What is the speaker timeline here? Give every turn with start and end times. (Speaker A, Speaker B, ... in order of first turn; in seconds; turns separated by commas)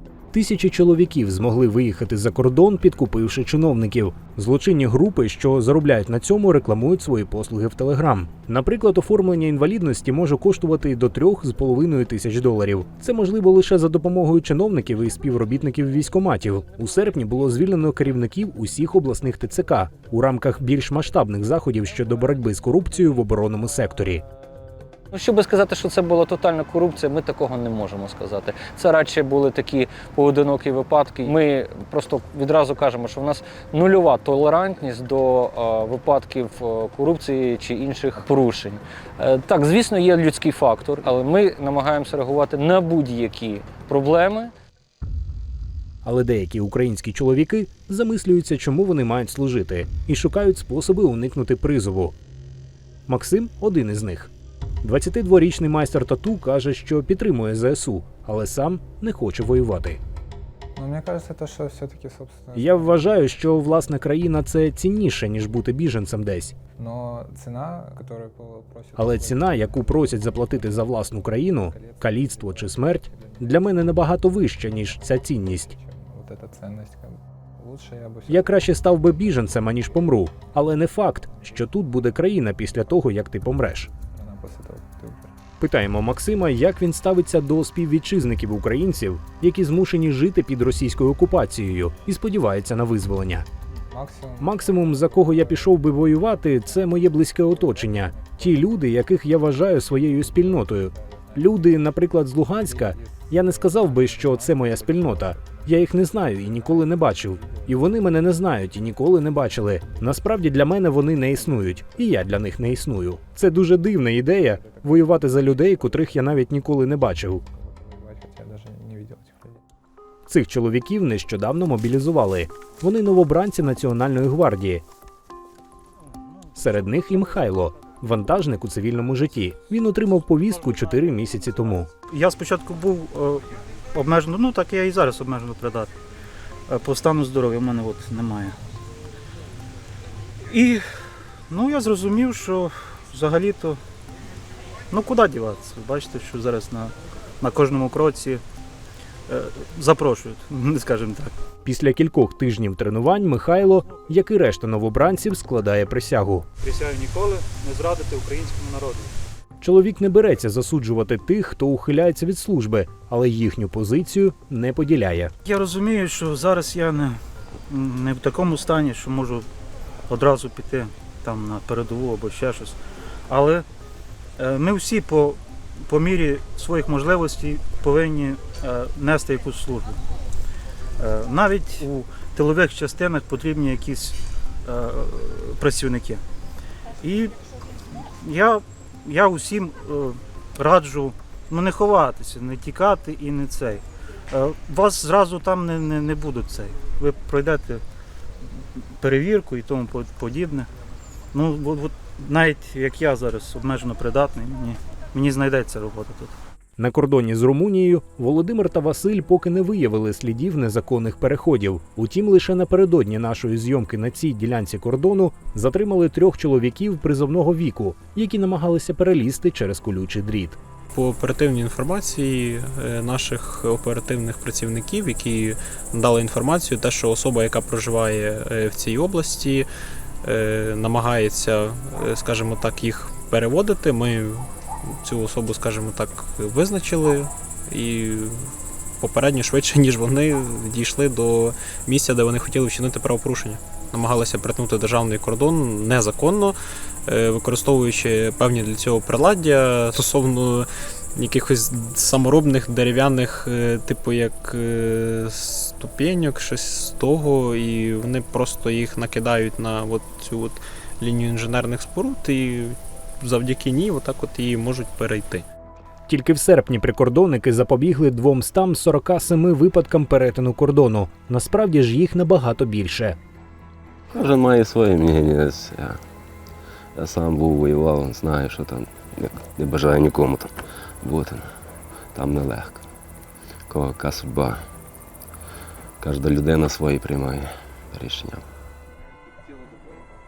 Speaker A: 0.3-24.2, Speaker B: 25.1-44.5, Speaker A: 46.0-52.1, Speaker A: 53.1-54.3, Speaker A: 54.8-60.0, Speaker C: 60.8-63.0, Speaker A: 62.5-66.5, Speaker C: 66.8-73.5, Speaker A: 69.0-75.7, Speaker C: 75.7-78.7, Speaker A: 78.3-83.9, Speaker C: 84.0-85.3, Speaker A: 85.6-93.5, Speaker C: 93.9-95.7, Speaker A: 94.4-117.4, Speaker C: 97.5-98.7, Speaker C: 100.4-101.5, Speaker C: 102.6-107.8, Speaker C: 114.6-116.0, Speaker C: 117.5-119.6, Speaker A: 120.3-124.8, Speaker A: 126.5-131.9, Speaker D: 132.1-135.9, Speaker D: 136.7-138.6, Speaker D: 140.5-140.8, Speaker D: 141.5-143.8, Speaker D: 144.9-148.4, Speaker D: 149.3-151.3, Speaker A: 151.6-156.5, Speaker D: 156.6-159.1, Speaker A: 159.6-165.3, Speaker D: 165.4-167.2, Speaker D: 167.7-169.4, Speaker D: 170.1-172.8, Speaker D: 173.3-173.6, Speaker D: 174.4-180.0, Speaker D: 181.0-186.2, Speaker D: 187.0-187.3, Speaker D: 187.9-197.8, Speaker D: 199.0-200.7, Speaker D: 201.3-206.3, Speaker A: 206.8-220.6, Speaker E: 220.9-229.7, Speaker E: 230.2-234.5, Speaker E: 235.0-246.6, Speaker E: 247.1-265.5, Speaker A: 266.1-273.2, Speaker F: 274.1-276.0, Speaker F: 276.9-281.5, Speaker F: 282.1-282.8, Speaker F: 283.7-284.6, Speaker F: 286.0-288.4